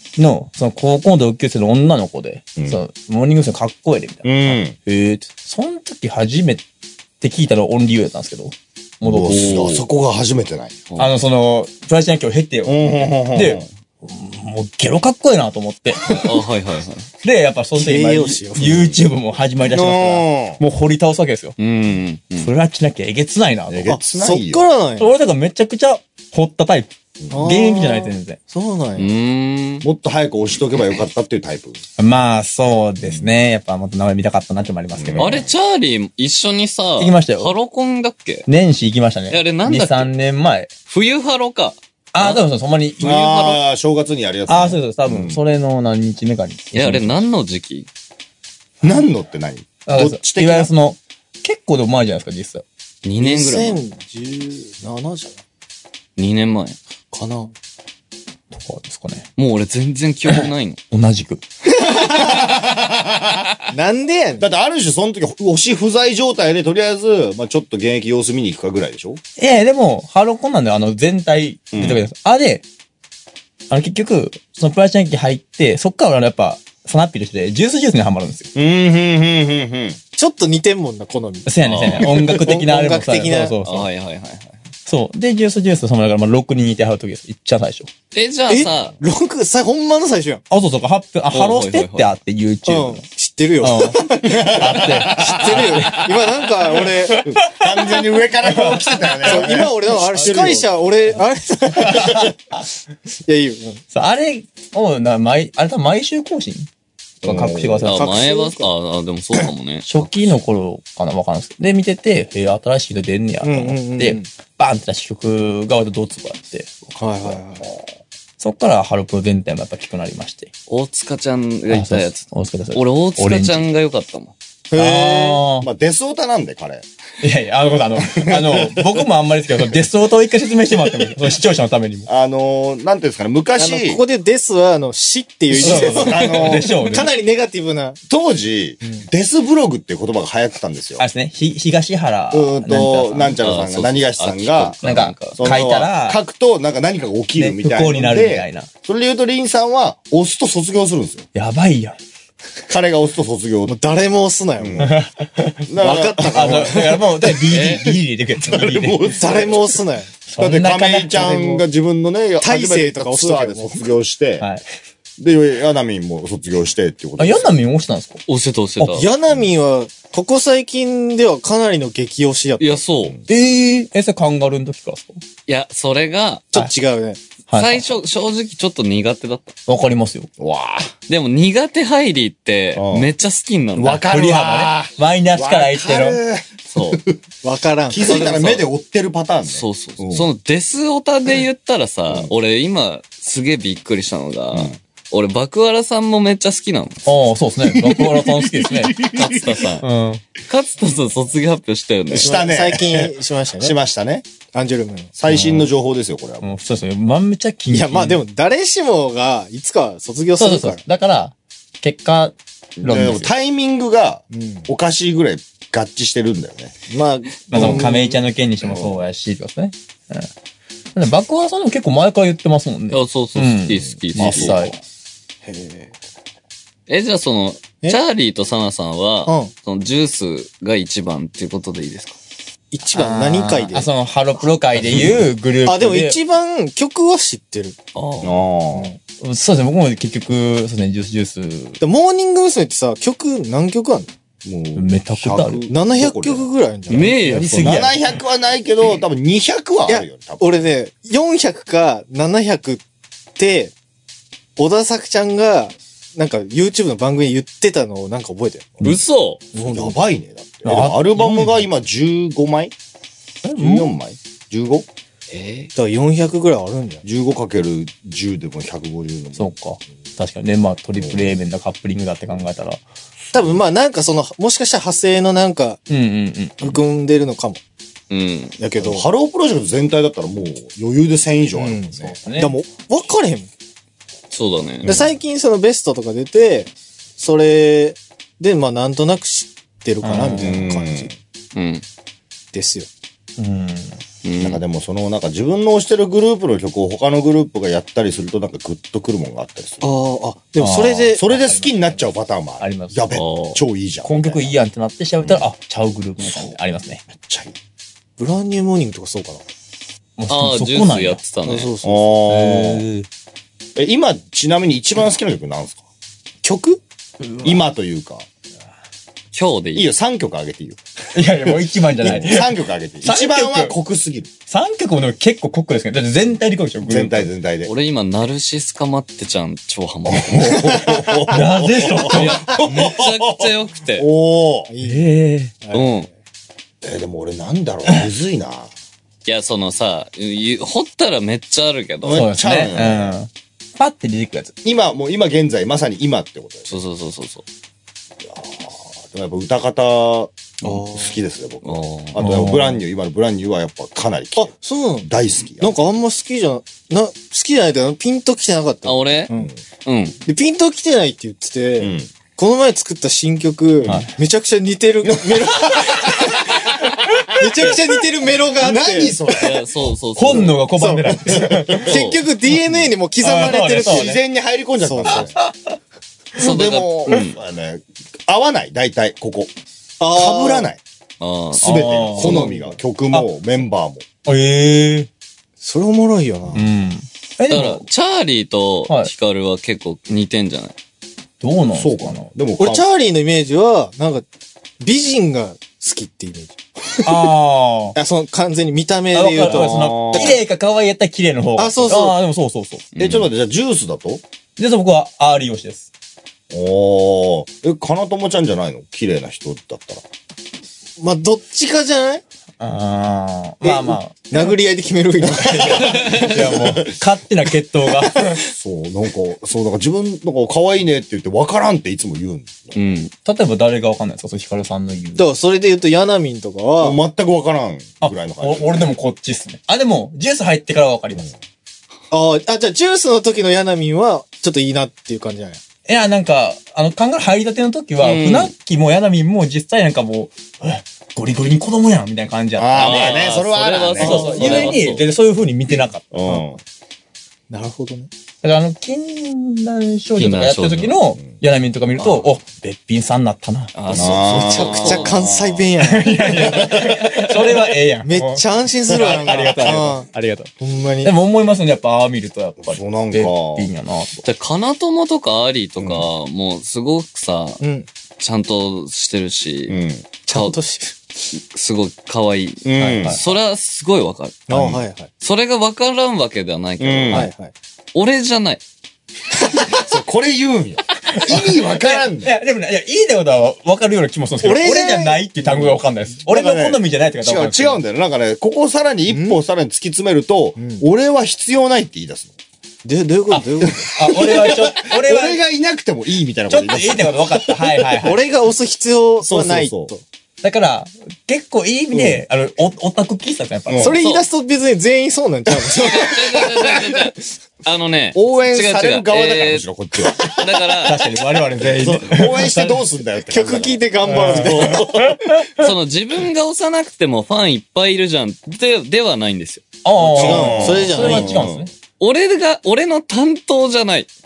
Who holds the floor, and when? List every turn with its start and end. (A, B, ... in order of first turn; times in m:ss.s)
0:00.2-0:06.6 A
0:04.2-0:04.8 B
0:07.2-0:09.7 A
0:09.0-0:10.8 B
0:09.2-0:09.8 C
0:11.0-0:16.3 A
0:12.6-0:13.7 B
0:16.1-0:17.1 C
0:17.2-0:21.5 A
0:17.8-0:19.0 D
0:19.6-0:20.6 B
0:21.6-0:22.5 C
0:22.4-0:24.0 A
0:23.7-0:24.6 B
0:23.9-0:25.1 D
0:25.0-0:28.4 A
0:27.3-0:29.1 D
0:29.0-0:29.9 C
0:29.8-0:31.8 B
0:32.0-0:35.5 A
0:33.0-0:33.2 B
0:35.0-0:35.5 B
0:35.2-0:38.5 C
0:37.0-0:37.5 A
0:38.5-0:40.7 A
0:39.3-0:40.1 C
0:40.9-0:42.4 C
0:42.1-0:43.6 A
0:43.0-0:45.4 B
0:44.5-0:47.2 A
0:46.7-0:47.9 C
0:48.8-0:50.7 B
0:49.8-0:52.6 A
0:53.0-0:53.8 C
0:53.2-0:55.4 D
0:56.2-0:56.8 C
0:57.1-0:57.5 D
0:58.5-0:59.3 A
0:59.4-1:00.8 C
1:00.3-1:01.4 A
1:01.9-1:03.5 B
1:03.7-1:04.5 D
1:04.4-1:09.2 B
1:09.4-1:12.6 A
1:11.7-1:12.0 B
1:13.7-1:18.5 A
1:18.5-1:20.0 B
1:20.1-1:21.5 D
1:21.4-1:23.9 A
1:21.6-1:22.2 C
1:22.1-1:23.6 D
1:23.6-1:24.6 C
1:24.8-1:27.9 A
1:28.1-1:29.0 C
1:28.5-1:30.4 D
1:30.5-1:33.0 A
1:31.3-1:32.1 C
1:32.7-1:37.2 D
1:33.6-1:36.1 A
1:34.2-1:36.0 B
1:36.9-1:39.7 A
1:37.2-1:40.7 B
1:39.2-1:42.3 D
1:41.8-1:42.3 A
1:43.2-1:43.8 D
1:43.9-1:46.7 A
1:47.2-1:48.0 A
1:47.2-1:47.9 B
1:47.8-1:50.4 C
1:47.9-1:48.7 D
1:49.8-1:56.9 A
1:53.4-1:54.3 D
1:57.0-1:57.7 D
1:58.4-2:00.5 A
2:00.7-2:04.3 C
2:01.7-2:03.7 A
2:04.7-2:05.4 D
2:04.8-2:05.7 A
2:05.6-2:06.8 B
2:07.2-2:12.1 A
2:08.0-2:09.0 B
2:12.1-2:14.0 B
2:13.6-2:18.0 D
2:15.5-2:16.7 B
2:15.6-2:17.1 A
2:18.1-2:21.0 B
2:21.0-2:23.4 A
2:22.3-2:24.8 B
2:23.3-2:25.4 C
2:24.8-2:26.2 A
2:25.3-2:31.3 B
2:27.4-2:28.7 A
2:31.3-2:32.0 A
2:32.7-2:33.8 B
2:33.6-2:34.9 D
2:34.6-2:34.9 B
2:34.8-2:35.7 A
2:35.6-2:39.8 B
2:35.8-2:37.0 D
2:36.2-2:39.1 A
2:37.5-2:37.9 C
2:39.1-2:40.1 D
2:40.3-2:41.2 A
2:40.4-2:44.4 B
2:41.1-2:41.6 D
2:42.4-2:43.8 D
2:44.4-2:44.6 A
2:45.2-2:47.5 B
2:47.2-2:48.2 A
2:48.3-2:49.0 C
2:48.9-2:52.8 D
2:52.6-2:53.1 C
2:53.3-2:55.2 A
2:55.5-2:56.5 C
2:56.5-2:57.2 D
2:57.5-2:57.9 A
2:57.5-2:59.6 C
2:59.7-3:00.3 A
3:00.4-3:00.9 B
3:01.1-3:04.0 C
3:02.8-3:03.1 B
3:03.8-3:07.2 B
3:04.1-3:06.2 A
3:06.7-3:07.0 C
3:07.4-3:08.3 D
3:07.9-3:10.3 B
3:08.0-3:08.6 C
3:09.4-3:17.0 C
3:17.0-3:19.1 A
3:17.6-3:19.7 B
3:19.1-3:19.8 C
3:19.8-3:20.2 A
3:20.4-3:22.3 C
3:22.1-3:24.2 B
3:22.1-3:23.7 D
3:24.5-3:25.1 D
3:25.2-3:26.6 B
3:25.3-3:25.7 A
3:26.4-3:28.2 A
3:27.7-3:30.8 D
3:30.4-3:33.3 A
3:32.8-3:36.7 B
3:34.3-3:34.7 D
3:36.9-3:38.2 D
3:37.5-3:40.3 A
3:38.7-3:39.0 B
3:40.9-3:44.7 A
3:42.9-3:44.6 C
3:44.2-3:44.8 B
3:45.4-3:45.9 D
3:46.9-3:52.2 C
3:49.2-3:49.5 D
3:52.7-3:53.9 D
3:52.9-3:56.2 A
3:54.8-3:55.2 B
3:55.6-3:57.8 D
3:57.9-3:58.4 C
3:58.2-3:58.9 B
3:58.7-3:59.0 D
3:59.2-4:01.8 A
4:01.8-4:04.1 D
4:04.4-4:06.5 B
4:04.8-4:05.6 A
4:05.7-4:07.5 D
4:06.9-4:07.8 C
4:06.9-4:08.2 A
4:07.6-4:10.4 B
4:09.9-4:12.8 D
4:13.4-4:13.7 D
4:14.6-4:18.8 D
4:18.8-4:19.4 C
4:19.5-4:20.0 D
4:19.6-4:22.7 B
4:20.6-4:21.6 A
4:23.4-4:24.9 B
4:23.6-4:23.9 A
4:25.3-4:25.7 C
4:25.8-4:27.0 D
4:27.0-4:29.5 B
4:29.4-4:32.8 A
4:31.0-4:31.3 B
4:33.3-4:33.6 B
4:33.3-4:35.8 D
4:35.9-4:36.8 A
4:36.6-4:37.6 D
4:38.1-4:38.6 C
4:38.6-4:39.1 D
4:38.8-4:42.2 B
4:41.6-4:43.5 D
4:42.2-4:42.6 A
4:44.3-4:44.9 C
4:44.8-4:45.1 B
4:44.8-4:51.1 D
4:50.0-4:50.6 A
4:50.4-4:51.1 B
4:51.5-4:51.8 C
4:52.5-4:52.9 D
4:53.4-4:54.0 A
4:54.2-4:54.6 C
4:54.4-4:59.8 B
4:59.8-5:01.2 D
5:00.6-5:03.0 A
5:01.2-5:04.6 B
5:03.1-5:03.6 C
5:04.0-5:07.0 A
5:05.2-5:05.5 B
5:06.2-5:06.5 B
5:07.1-5:07.5 B
5:08.2-5:09.4 D
5:10.2-5:11.2 A
5:10.3-5:11.7 C
5:11.4-5:12.2 D
5:11.8-5:12.8 B
5:12.3-5:13.1 A
5:13.8-5:15.8 B
5:16.4-5:16.8 D
5:17.2-5:17.6 A
5:17.4-5:18.2 B
5:19.3-5:19.9 C
5:19.8-5:20.8 B
5:21.1-5:23.7 A
5:22.0-5:24.3 B
5:24.5-5:27.3 A
5:26.8-5:27.7 B
5:27.6-5:30.9 C
5:30.1-5:34.7 B
5:30.5-5:30.8 D
5:31.3-5:32.6 A
5:32.0-5:34.1 C
5:32.6-5:33.0 D
5:34.7-5:35.0 D
5:34.8-5:35.5 A
5:35.6-5:36.1 D
5:35.7-5:36.1 C
5:36.8-5:38.7 B
5:39.2-5:42.7 C
5:42.0-5:43.2 B
5:42.1-5:44.5 A
5:44.6-5:46.8 B
5:46.7-5:47.4 C
5:48.2-5:55.8 B
5:50.6-5:51.2 D
5:51.6-5:52.1 C
5:52.2-5:52.8 A
5:54.4-5:55.1 D
5:55.6-5:59.5 D
5:58.8-5:59.3 C
5:59.8-6:00.2 C
6:00.2-6:06.7 D
6:01.8-6:02.1 B
6:03.8-6:04.1 B
6:03.8-6:04.1 A
6:05.0-6:06.6 B
6:07.3-6:09.2 D
6:08.6-6:10.4 B
6:09.4-6:10.6 C
6:10.1-6:11.9 A
6:10.8-6:14.2 D
6:11.1-6:11.9 B
6:11.8-6:12.3 C
6:13.2-6:14.1 A
6:13.8-6:15.3 B
6:14.8-6:15.3 D
6:15.1-6:15.7 A
6:16.4-6:17.4 C
6:16.4-6:19.5 B
6:20.0-6:20.7 D
6:20.1-6:20.8 B
6:21.2-6:22.5 C
6:21.6-6:24.0 B
6:21.6-6:22.6 A
6:24.2-6:25.1 A
6:25.6-6:26.7 D
6:26.5-6:27.8 A
6:27.5-6:30.7 C
6:31.4-6:32.3 A
6:31.7-6:32.8 B
6:32.6-6:34.2 D
6:34.8-6:37.3 D
6:37.0-6:38.0 A
6:37.9-6:40.4 D
6:39.1-6:42.8 A
6:39.4-6:40.4 B
6:41.6-6:42.2 D
6:42.9-6:43.3 C
6:43.0-6:44.2 B
6:44.6-6:45.9 A
6:46.5-6:50.0 B
6:51.0-6:52.2 D
6:52.6-6:54.5 A
6:53.6-6:56.6 D
6:55.2-6:57.0 B
6:55.8-6:58.4 A
6:55.9-6:56.3 C
6:57.8-6:58.5 D
6:58.5-7:02.8 B
7:02.7-7:03.1 C
7:03.2-7:05.2 A
7:05.2-7:07.0 D
7:06.8-7:08.9 B
7:08.0-7:11.3 A
7:12.1-7:15.6 D
7:15.9-7:23.3 A
7:18.0-7:18.5 C
7:22.6-7:24.8 B
7:22.7-7:25.0 C
7:24.0-7:24.8 D
7:24.0-7:26.3 A
7:26.1-7:26.6 B
7:27.5-7:28.1 D
7:28.4-7:34.2 A
7:30.2-7:30.9 C
7:33.7-7:35.3 C
7:33.9-7:35.7 B
7:34.2-7:36.4 D
7:35.8-7:40.5 A
7:36.3-7:37.0 B
7:36.8-7:37.6 C
7:38.0-7:40.1 D
7:40.6-7:41.1 D
7:41.0-7:44.2 A
7:42.6-7:43.7 B
7:44.2-7:47.6 C
7:45.8-7:46.1 B
7:47.6-7:47.9 D
7:48.2-7:50.6 C
7:49.7-7:50.0 B
7:50.3-7:50.9 D
7:51.3-7:54.4 C
7:52.6-7:53.2 B
7:52.8-7:53.2 A
7:54.5-7:55.1 D
7:54.5-7:54.8 B
7:55.2-7:57.3 C
7:56.8-7:57.3 B
7:57.1-7:57.5 D
7:57.9-7:58.6 C
7:59.7-8:02.3 B
8:01.1-8:07.8 A
8:04.4-8:05.8 D
8:06.3-8:12.3 B
8:09.1-8:09.4 D
8:10.6-8:10.8 D
8:12.8-8:13.9 D
8:13.3-8:15.4 A
8:13.7-8:17.7 B
8:16.5-8:18.2 A
8:18.0-8:20.0 D
8:19.2-8:19.9 B
8:20.4-8:24.0 A
8:21.9-8:22.2 B
8:23.7-8:24.0 B
8:23.8-8:26.5 D
8:25.8-8:29.7 C
8:26.3-8:27.1 B
8:28.1-8:30.7 B
8:30.3-8:31.0 C
8:30.8-8:32.8 A
8:31.6-8:35.1 B
8:33.3-8:34.9 D
8:34.0-8:35.7 A
8:35.6-8:39.8 C
8:39.8-8:41.7 A
8:40.0-8:41.3 D
8:40.1-8:41.7 B
8:42.0-8:44.1 C